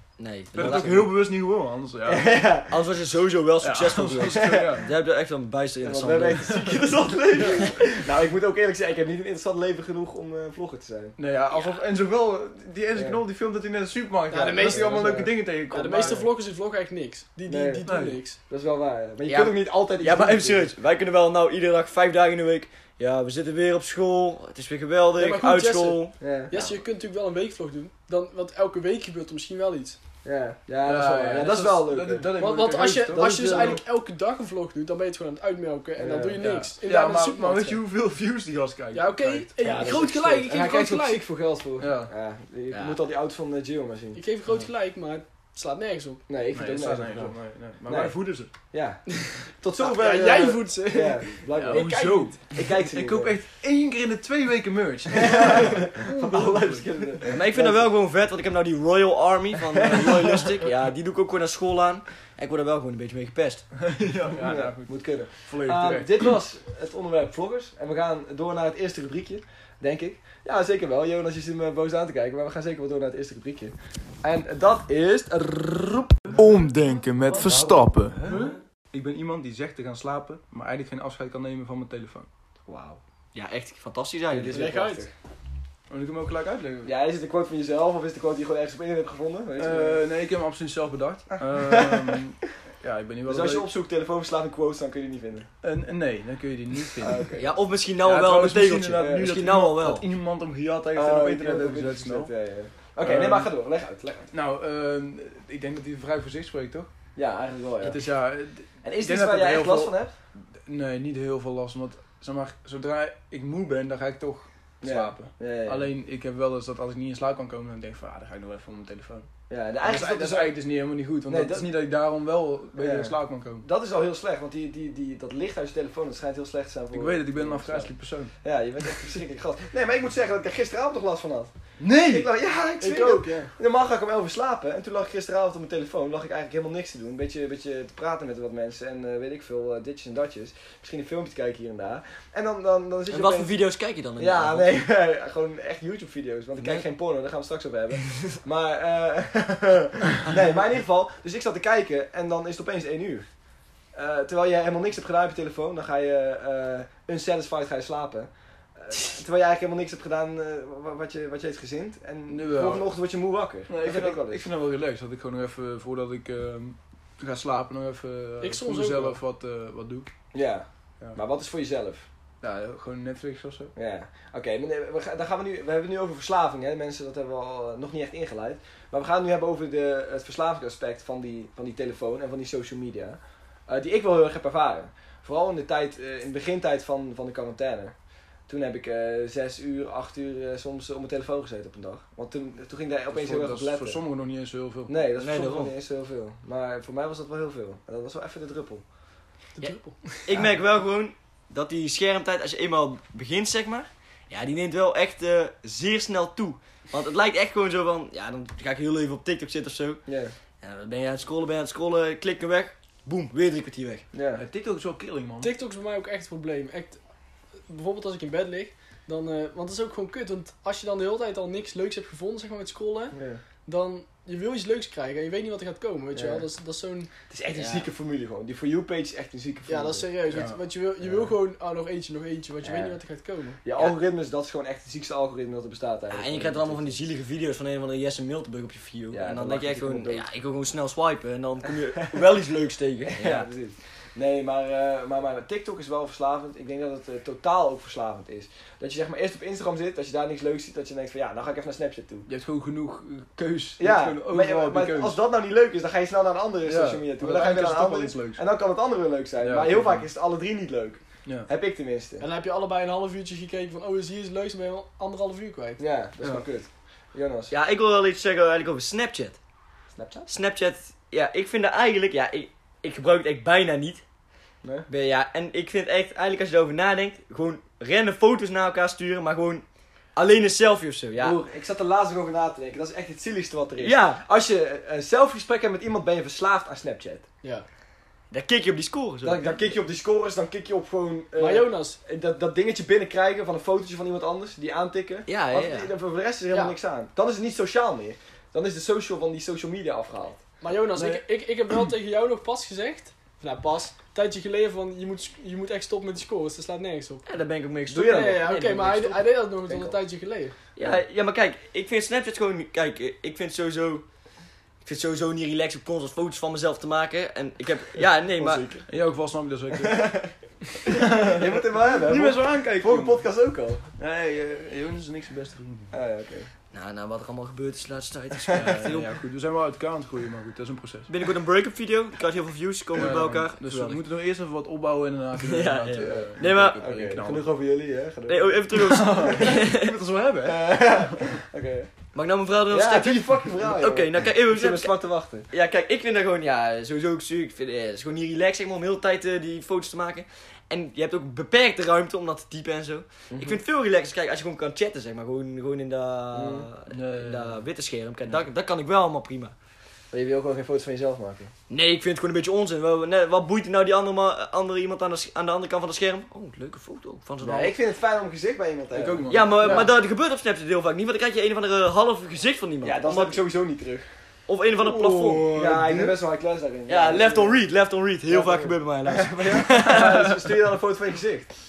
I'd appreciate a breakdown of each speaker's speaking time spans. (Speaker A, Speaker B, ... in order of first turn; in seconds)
Speaker A: 0.2-1.1, 2.7-6.7, 19.3-26.8, 42.7-43.0, 57.3-63.7, 83.3-84.7, 97.4-100.0, 143.1-144.8, 146.6-146.8, 195.2-195.7, 200.2-210.0, 210.6-214.1, 227.5-227.9, 236.1-243.5, 267.5-269.4, 270.3-274.0, 274.9-279.6, 280.2-281.4, 283.8-284.2, 288.3-289.5, 295.3-295.9, 307.2-309.2, 310.8-314.1, 314.8-318.7, 326.7-329.1, 331.1-334.0, 335.4-336.8, 338.3-340.0, 342.1-344.9, 345.5-359.5, 361.7-367.7, 369.3-373.4, 374.5-375.7, 376.9-380.4
Speaker B: 0.5-2.3, 3.6-4.9, 6.4-6.8, 11.2-16.2, 17.9-18.2, 30.8-33.8, 36.4-39.5, 41.8-42.1, 46.5-48.5, 51.6-57.4, 63.9-66.4, 76.3-78.4, 78.9-82.3, 85.9-86.9, 89.6-93.7, 95.6-97.2, 98.0-102.3, 103.0-103.5, 104.3-106.9, 107.8-119.3, 119.8-123.7, 126.9-128.3, 131.8-132.3, 162.3-162.9, 163.7-170.1, 172.4-173.7, 193.1-194.9, 214.3-215.5, 230.3-230.6, 252.3-255.2, 256.7-258.4, 259.4-260.1, 318.9-320.2, 320.9-323.2, 324.0-325.9, 328.5-331.1, 333.0-337.5, 338.7-340.7, 356.9-357.6, 368.9-369.9, 374.8-376.2
Speaker C: 2.0-2.8, 4.3-4.9, 5.8-11.2, 12.9-13.2, 14.6-15.4, 16.0-16.3, 17.5-17.9, 18.4-20.7, 26.2-26.5, 30.2-32.4, 33.1-33.8, 36.0-36.5, 39.6-44.2, 46.3-53.4, 55.1-57.9, 59.7-60.5, 64.3-76.4, 82.7-83.0, 84.3-85.1, 86.8-90.0, 91.4-92.2, 93.2-95.5, 97.0-97.5, 99.0-99.3, 100.9-104.3, 107.2-108.0, 108.8-110.1, 114.8-115.9, 119.5-120.6, 121.3-121.7, 122.8-143.5, 144.2-153.3, 153.9-164.5, 170.3-172.1, 173.8-187.9, 188.5-194.0, 194.9-198.8, 210.1-210.3, 214.1-214.4, 223.1-223.4, 226.1-226.4, 227.3-230.1, 231.0-231.3, 232.6-233.0, 233.6-237.0, 239.1-240.2, 243.1-252.3, 253.8-262.2, 265.8-267.5, 269.9-270.3, 274.6-274.9, 281.2-287.2, 289.2-300.4, 307.9-308.5, 309.7-310.0, 318.4-318.9, 319.7-323.9, 325.9-326.5, 328.5-328.8, 336.0-339.7, 340.4-341.9, 342.7-345.5, 353.3-353.6, 356.3-356.7, 360.1-361.5, 367.4-369.9, 372.8-374.1, 375.5-377.6, 378.3-381.5
Speaker D: 14.3-18.4, 25.2-30.0, 32.4-37.8, 38.9-41.2, 44.1-46.2, 49.2-52.4, 78.3-78.6, 84.5-85.1, 132.8-133.5, 168.4-169.2, 199.6-200.3, 215.4-217.0, 217.7-227.1, 229.7-233.6, 262.2-265.8, 291.4-292.0, 300.6-307.2, 307.9-310.6